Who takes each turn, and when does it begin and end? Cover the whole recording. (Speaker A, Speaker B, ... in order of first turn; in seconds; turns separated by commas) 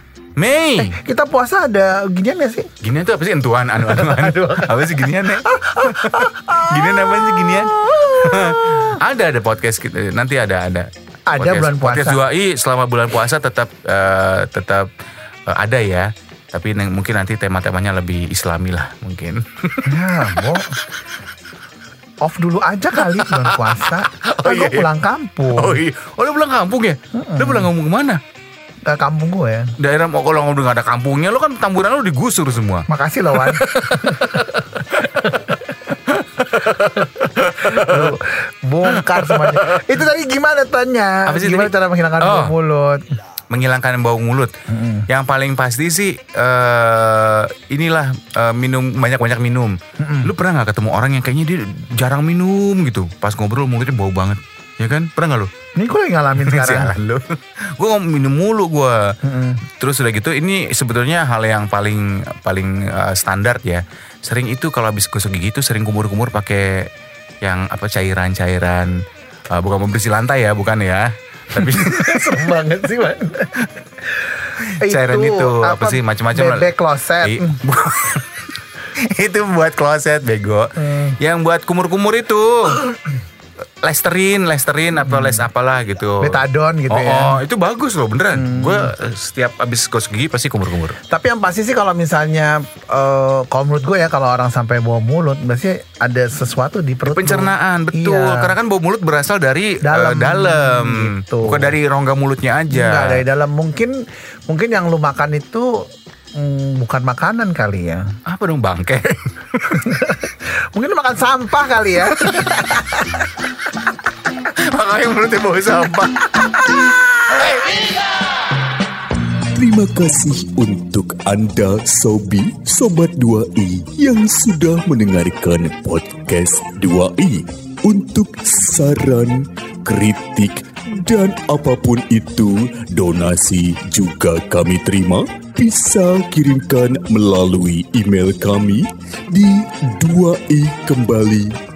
Speaker A: 0.4-0.9, Speaker B: 0.8-2.7, Speaker A: 2.8-14.9, Speaker B: 3.9-9.0, Speaker B: 11.3-12.2, Speaker A: 15.5-20.6, Speaker B: 19.9-20.8, Speaker B: 22.2-25.8, Speaker A: 23.0-24.9, Speaker A: 25.5-28.2, Speaker B: 27.1-27.7, Speaker B: 28.9-29.8, Speaker A: 29.8-34.6, Speaker B: 32.9-35.6, Speaker A: 36.1-38.2, Speaker B: 37.5-43.2, Speaker A: 38.8-40.0, Speaker A: 41.3-42.5, Speaker A: 43.5-44.5, Speaker B: 44.7-45.1, Speaker A: 45.1-55.5, Speaker B: 50.0-50.3, Speaker B: 55.8-56.9, Speaker A: 56.4-59.2, Speaker B: 59.2-59.6, Speaker A: 59.7-66.9, Speaker A: 67.4-69.0, Speaker A: 69.5-72.6, Speaker B: 71.6-77.6, Speaker A: 74.6-83.0, Speaker B: 80.8-81.2, Speaker A: 83.8-91.0, Speaker B: 85.1-85.5, Speaker B: 86.2-87.4, Speaker B: 88.3-88.9, Speaker B: 91.1-98.5, Speaker A: 97.0-103.2, Speaker B: 99.8-101.8, Speaker B: 102.7-108.2, Speaker A: 108.3-110.0, Speaker B: 109.7-113.1, Speaker A: 112.3-112.7, Speaker A: 114.4-118.0, Speaker C: 119.5-141.6